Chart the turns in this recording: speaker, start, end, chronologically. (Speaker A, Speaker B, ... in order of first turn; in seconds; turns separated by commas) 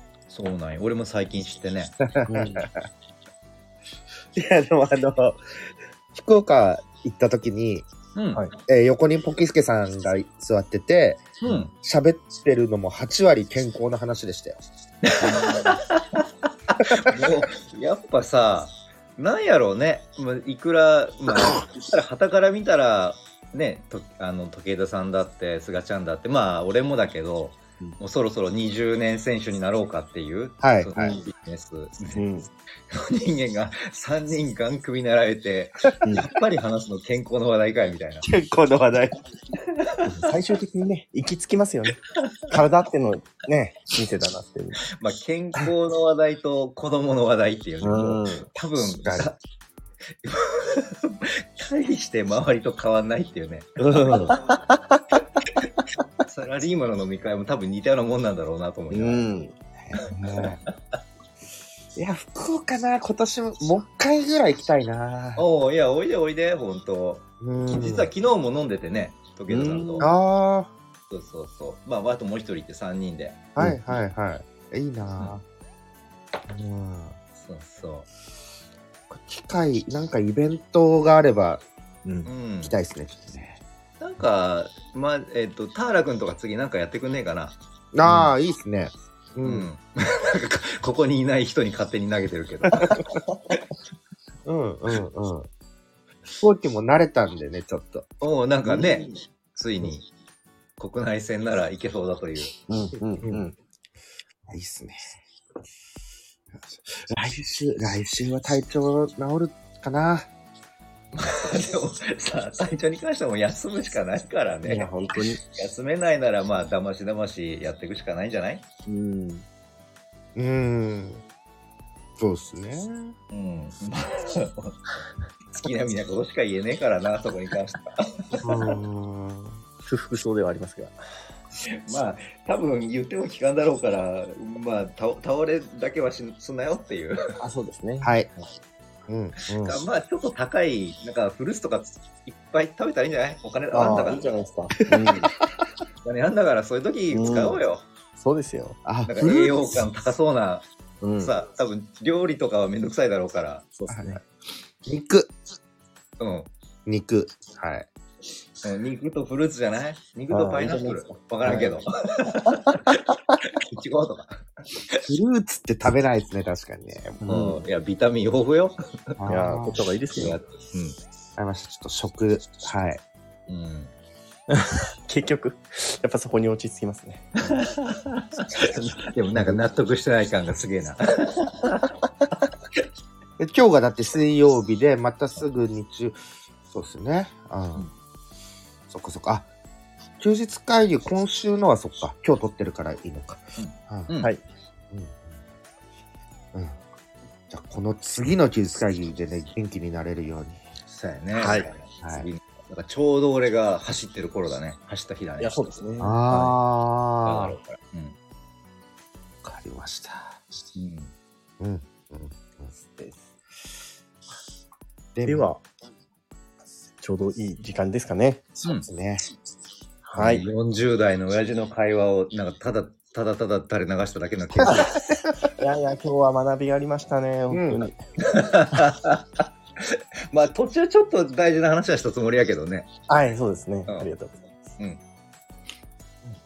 Speaker A: 0.3-1.9, Speaker B: 2.0-2.7, Speaker C: 2.3-2.6, Speaker B: 4.3-5.4, Speaker B: 6.1-7.9, Speaker A: 8.1-8.4, Speaker B: 8.7-14.6, Speaker A: 11.4-11.7, Speaker A: 15.1-32.2, Speaker B: 15.2-15.7, Speaker B: 16.8-17.4, Speaker B: 30.6-31.0, Speaker C: 31.0-31.2, Speaker C: 32.1-32.5, Speaker A: 32.9-38.3, Speaker C: 36.0-36.3, Speaker B: 38.2-39.2, Speaker A: 39.8-40.3, Speaker C: 40.0-42.0, Speaker C: 42.5-44.8, Speaker A: 45.0-49.4, Speaker C: 47.8-48.5, Speaker A: 50.2-54.4, Speaker B: 53.8-54.3, Speaker C: 54.1-55.1, Speaker A: 56.3-59.3, Speaker C: 58.9-59.5, Speaker B: 59.8-60.6, Speaker B: 62.0-65.4, Speaker A: 65.3-70.1, Speaker B: 67.4-68.1, Speaker C: 69.5-70.1, Speaker B: 70.0-70.7, Speaker A: 71.1-73.5, Speaker B: 73.5-75.4, Speaker B: 76.5-77.2, Speaker A: 77.3-78.1, Speaker B: 79.1-81.6, Speaker C: 82.0-82.3, Speaker A: 82.2-82.7, Speaker B: 82.6-83.6, Speaker A: 84.0-87.6, Speaker B: 87.9-89.7, Speaker A: 89.4-93.0, Speaker C: 92.7-93.6, Speaker B: 94.4-95.5, Speaker B: 96.4-98.1, Speaker A: 98.2-100.1, Speaker C: 98.7-99.0, Speaker A: 100.8-102.5, Speaker C: 102.7-103.6, Speaker B: 104.5-105.2, Speaker B: 107.0-110.3, Speaker A: 111.1-118.6, Speaker C: 114.6-115.4, Speaker C: 118.9-119.4, Speaker B: 120.3-121.2, Speaker B: 122.2-123.2, Speaker A: 123.3-124.9, Speaker A: 125.5-128.8, Speaker B: 128.4-129.6, Speaker C: 129.8-130.9, Speaker A: 131.7-137.2, Speaker C: 137.4-138.5, Speaker B: 138.0-138.3, Speaker B: 139.1-139.8, Speaker A: 139.5-144.3, Speaker C: 143.7-145.3, Speaker B: 145.0-145.4, Speaker A: 146.0-147.8, Speaker C: 147.1-147.6, Speaker C: 148.2-148.8, Speaker B: 148.8-149.5, Speaker A: 149.1-150.7, Speaker C: 151.0-151.3, Speaker A: 151.2-153.7, Speaker C: 153.7-154.2, Speaker B: 153.9-154.2, Speaker B: 154.8-155.3, Speaker A: 156.2-156.5, Speaker B: 156.8-157.9, Speaker A: 158.6-163.0, Speaker C: 160.3-161.8, Speaker A: 163.6-165.0, Speaker B: 165.1-167.2, Speaker C: 167.2-167.6, Speaker A: 167.2-169.2, Speaker B: 169.2-169.8, Speaker C: 169.3-170.4, Speaker A: 170.1-170.9, Speaker B: 171.4-173.0, Speaker A: 173.5-173.9, Speaker C: 174.5-177.3, Speaker A: 177.4-181.9, Speaker B: 183.4-186.2, Speaker B: 186.7-187.9, Speaker B: 188.9-189.5, Speaker B: 190.2-194.1, Speaker A: 193.6-194.3, Speaker B: 194.9-195.4, Speaker B: 197.5-200.7, Speaker A: 200.9-205.7, Speaker C: 201.3-201.7, Speaker B: 201.4-202.3, Speaker C: 205.4-206.1, Speaker B: 206.0-207.6, Speaker A: 206.3-206.6, Speaker A: 207.2-208.2, Speaker B: 209.4-210.4, Speaker A: 210.7-211.1, Speaker B: 211.6-212.8, Speaker B: 215.1-215.5, Speaker C: 215.2-215.6, Speaker C: 217.0-218.4, Speaker B: 218.8-219.2, Speaker C: 220.0-220.5, Speaker A: 220.2-225.0, Speaker B: 224.5-225.2, Speaker C: 224.7-227.9, Speaker B: 227.5-227.8, Speaker A: 228.2-232.9, Speaker C: 233.1-234.4